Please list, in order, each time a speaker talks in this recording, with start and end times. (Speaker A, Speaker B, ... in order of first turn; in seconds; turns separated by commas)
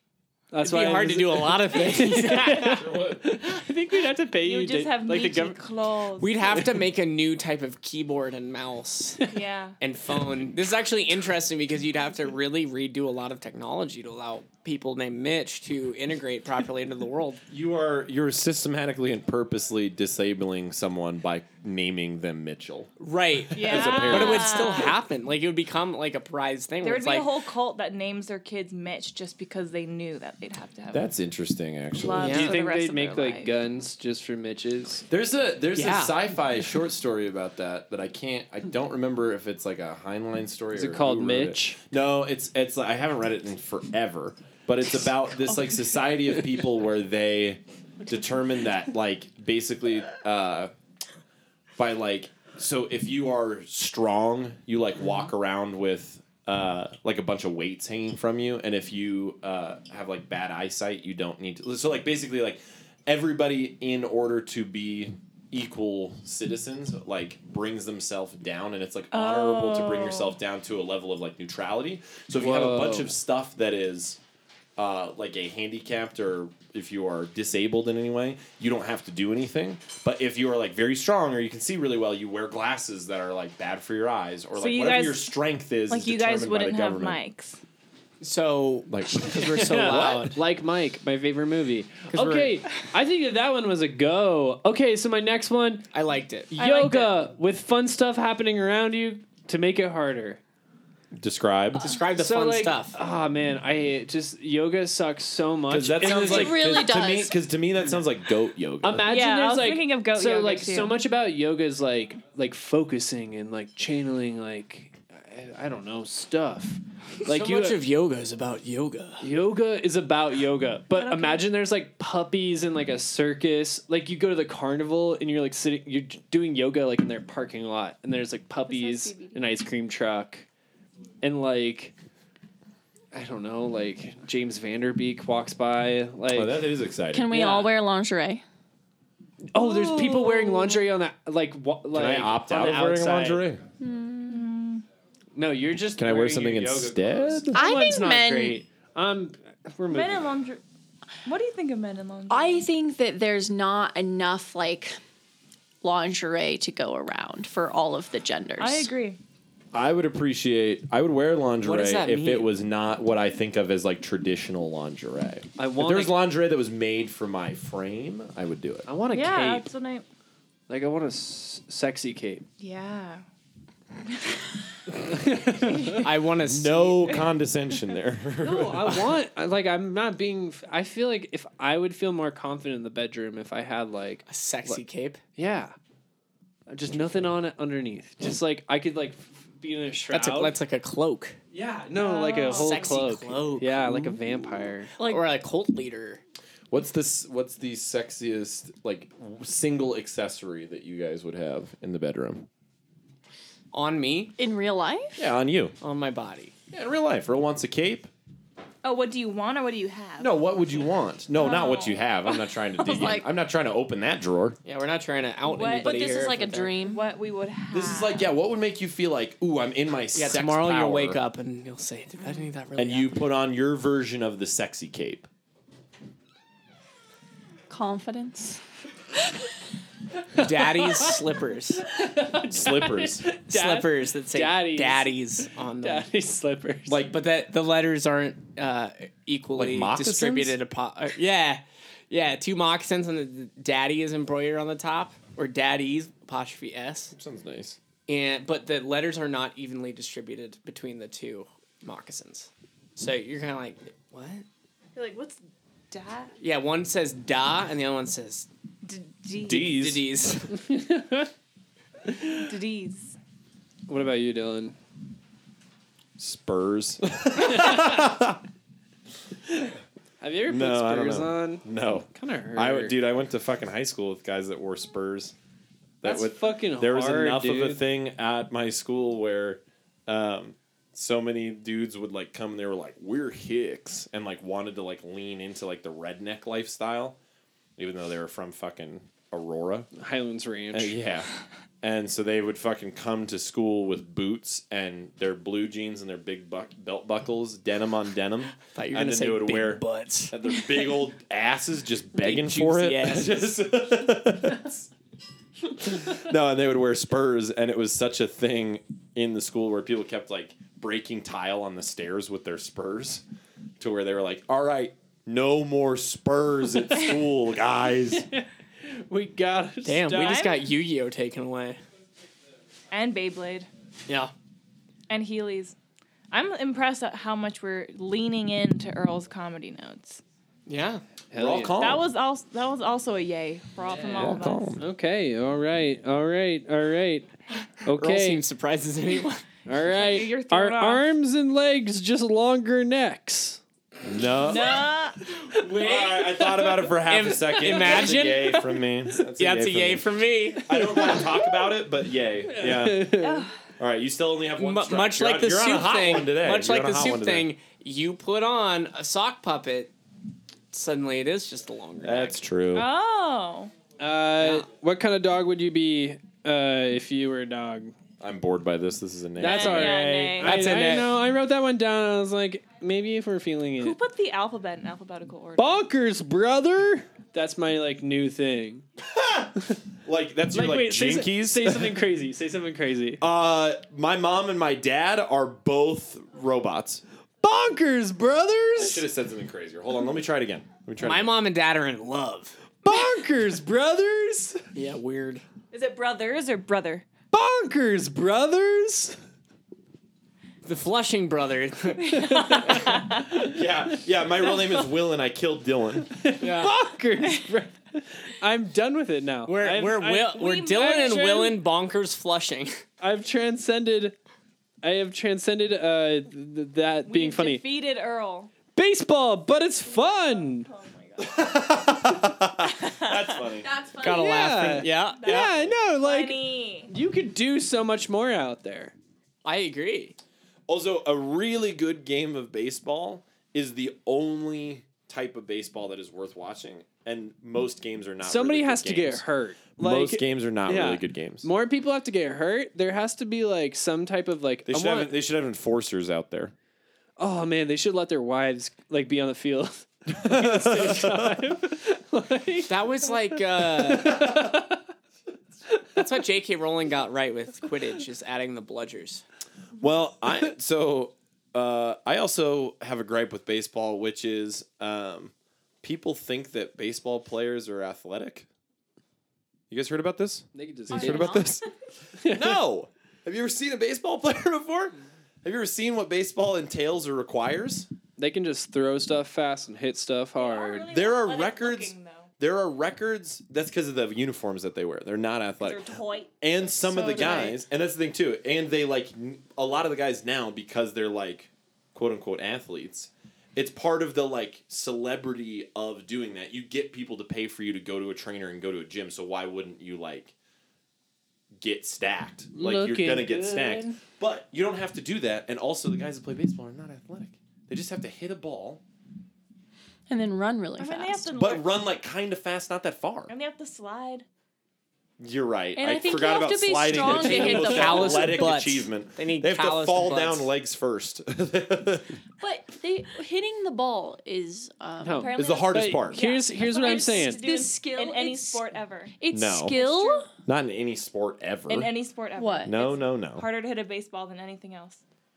Speaker A: 0.5-5.5, Speaker B: 0.6-2.9, Speaker C: 2.7-3.4, Speaker D: 4.4-6.5, Speaker B: 5.1-5.5, Speaker B: 6.2-9.2, Speaker D: 9.3-9.8, Speaker B: 9.8-17.4, Speaker C: 17.5-22.9, Speaker B: 23.0-27.3, Speaker C: 23.5-24.9, Speaker D: 23.6-25.0, Speaker D: 26.8-31.1, Speaker C: 30.9-32.5, Speaker D: 31.9-33.5, Speaker B: 32.2-32.5, Speaker A: 32.2-35.0, Speaker C: 35.1-50.7, Speaker B: 35.8-36.2, Speaker A: 40.7-41.8, Speaker C: 51.8-74.2, Speaker D: 69.1-70.4, Speaker A: 72.4-73.1, Speaker C: 74.8-87.2, Speaker D: 84.6-85.3, Speaker D: 85.9-87.6, Speaker B: 88.2-90.4, Speaker C: 88.9-90.3, Speaker A: 89.5-95.9, Speaker B: 92.1-92.5, Speaker B: 95.9-96.6, Speaker A: 96.5-100.4, Speaker D: 96.6-97.2, Speaker C: 101.1-101.9, Speaker B: 101.8-103.0, Speaker A: 102.1-106.6, Speaker C: 105.7-109.1, Speaker B: 106.0-106.5, Speaker E: 106.1-107.3, Speaker A: 108.8-117.8, Speaker D: 109.1-111.0, Speaker B: 117.2-119.3, Speaker A: 119.2-130.5, Speaker D: 120.9-121.4, Speaker D: 128.7-129.4, Speaker A: 131.2-131.9, Speaker A: 133.1-136.6, Speaker C: 136.3-137.3, Speaker E: 137.1-138.4, Speaker A: 137.3-137.7, Speaker A: 139.5-143.4, Speaker D: 139.6-140.9, Speaker C: 141.9-143.6, Speaker E: 143.8-144.4, Speaker D: 144.3-144.8, Speaker A: 145.3-150.3, Speaker C: 146.0-147.6, Speaker E: 147.6-148.6, Speaker D: 149.9-150.6, Speaker D: 151.2-152.7, Speaker E: 152.3-155.0, Speaker E: 155.8-158.9, Speaker D: 158.6-159.2, Speaker C: 159.7-168.9, Speaker B: 161.6-162.5, Speaker A: 165.6-166.2, Speaker A: 168.9-169.7, Speaker D: 169.1-170.1, Speaker A: 170.7-172.5, Speaker D: 172.6-173.2, Speaker D: 174.1-174.4, Speaker A: 175.0-176.1, Speaker B: 176.0-177.1, Speaker C: 176.4-179.2, Speaker A: 178.4-184.8, Speaker B: 184.3-185.2, Speaker A: 185.4-185.7, Speaker A: 186.7-190.6, Speaker B: 190.1-191.4, Speaker A: 191.5-195.0, Speaker D: 192.0-192.9, Speaker B: 192.5-194.2, Speaker B: 195.0-196.2, Speaker C: 196.7-202.5, Speaker B: 203.7-204.3, Speaker E: 204.4-205.2, Speaker C: 205.2-205.8, Speaker B: 205.8-206.5, Speaker C: 206.7-208.1, Speaker D: 208.8-210.4, Speaker C: 210.2-214.6, Speaker D: 211.4-211.9, Speaker E: 211.4-211.9, Speaker E: 212.8-213.3, Speaker B: 214.7-216.8, Speaker D: 215.5-218.3, Speaker E: 215.8-217.0, Speaker C: 217.7-221.2, Speaker B: 220.2-223.2, Speaker C: 222.8-225.3, Speaker E: 227.7-228.6, Speaker B: 230.3-231.9, Speaker A: 230.6-231.2, Speaker A: 231.8-237.0, Speaker C: 232.5-233.2, Speaker B: 233.5-236.1, Speaker C: 236.9-237.2, Speaker B: 237.1-247.1, Speaker C: 239.6-240.6, Speaker C: 247.1-247.8, Speaker B: 248.1-254.5, Speaker D: 254.9-256.3, Speaker B: 256.4-258.5, Speaker D: 258.8-259.8, Speaker C: 259.5-260.0, Speaker B: 259.5-260.6, Speaker A: 260.5-261.3, Speaker A: 262.1-262.5, Speaker D: 262.4-263.2, Speaker A: 263.9-264.8, Speaker C: 266.2-268.4, Speaker A: 267.5-268.1, Speaker A: 270.2-272.9, Speaker C: 270.5-275.4, Speaker A: 276.0-277.8, Speaker C: 276.0-287.2, Speaker C: 287.8-289.9, Speaker A: 289.9-291.0, Speaker C: 290.7-291.3, Speaker C: 291.8-304.9, Speaker B: 298.8-300.4, Speaker B: 302.2-303.5, Speaker C: 305.6-313.2, Speaker C: 313.8-318.3, Speaker A: 318.1-320.4, Speaker B: 319.9-321.8, Speaker D: 320.2-320.6, Speaker D: 322.9-323.7, Speaker B: 324.1-324.3, Speaker D: 325.1-325.8, Speaker D: 326.3-330.2, Speaker B: 330.7-331.0, Speaker A: 331.3-331.8, Speaker C: 331.4-332.1, Speaker D: 331.8-334.8, Speaker C: 334.1-334.8, Speaker A: 334.8-337.3, Speaker A: 337.9-338.4, Speaker B: 338.0-339.4, Speaker A: 339.7-343.6, Speaker D: 339.9-341.0, Speaker C: 344.0-344.9, Speaker D: 344.4-345.3, Speaker C: 345.6-350.1, Speaker B: 345.6-348.8, Speaker A: 347.7-348.2, Speaker B: 349.4-350.9, Speaker C: 350.6-353.2, Speaker A: 350.7-351.4, Speaker A: 352.5-353.5, Speaker D: 353.2-353.5, Speaker C: 353.8-357.5, Speaker B: 354.6-359.9, Speaker B: 360.7-362.4, Speaker C: 362.0-362.9, Speaker D: 362.7-363.7, Speaker A: 364.0-368.0, Speaker B: 364.4-364.7, Speaker C: 368.2-370.0, Speaker A: 369.4-374.0, Speaker D: 369.4-370.8, Speaker B: 370.4-371.2, Speaker D: 373.8-375.8, Speaker A: 375.6-378.9, Speaker C: 379.0-382.0, Speaker A: 380.5-383.2, Speaker C: 383.2-387.0, Speaker A: 387.4-389.0, Speaker C: 388.8-391.4, Speaker B: 391.0-392.6, Speaker A: 392.8-394.6, Speaker B: 394.7-395.4, Speaker D: 395.7-397.1, Speaker A: 397.3-399.2, Speaker B: 400.6-402.9, Speaker D: 402.0-403.5, Speaker A: 402.2-403.5, Speaker C: 403.3-406.2, Speaker A: 406.1-411.5, Speaker B: 406.4-406.8, Speaker B: 409.5-412.8, Speaker D: 410.4-411.6, Speaker A: 413.0-414.1, Speaker A: 414.8-417.6, Speaker D: 417.1-418.5, Speaker A: 418.8-420.7, Speaker D: 419.9-421.5, Speaker C: 421.2-423.7, Speaker E: 423.6-424.7, Speaker B: 424.0-425.5, Speaker A: 424.1-428.9, Speaker D: 425.2-426.9, Speaker B: 429.4-430.2, Speaker C: 430.7-439.2, Speaker A: 438.2-445.1, Speaker C: 439.8-441.5, Speaker C: 444.7-446.5, Speaker A: 447.2-454.8, Speaker C: 450.2-451.4, Speaker B: 452.7-454.3, Speaker B: 455.9-459.2, Speaker C: 459.8-468.5, Speaker C: 469.7-471.6, Speaker A: 470.5-471.4, Speaker E: 470.9-471.5, Speaker A: 472.2-472.6, Speaker C: 472.2-477.9, Speaker A: 478.2-480.9, Speaker D: 480.4-482.3, Speaker C: 480.9-500.3, Speaker D: 485.6-487.6, Speaker E: 486.9-487.6, Speaker C: 501.6-508.8, Speaker A: 502.5-504.0, Speaker E: 510.1-511.4, Speaker D: 510.8-511.7, Speaker C: 511.3-513.3, Speaker D: 513.3-514.2, Speaker C: 515.2-522.2, Speaker E: 515.8-518.5, Speaker A: 517.2-517.5, Speaker B: 517.3-520.5, Speaker E: 522.4-528.6, Speaker A: 525.0-527.4, Speaker D: 525.2-530.3, Speaker C: 525.3-526.2, Speaker E: 529.2-530.3, Speaker C: 529.3-529.7, Speaker C: 530.5-531.9, Speaker D: 531.7-535.0, Speaker E: 532.4-532.7, Speaker C: 532.7-533.5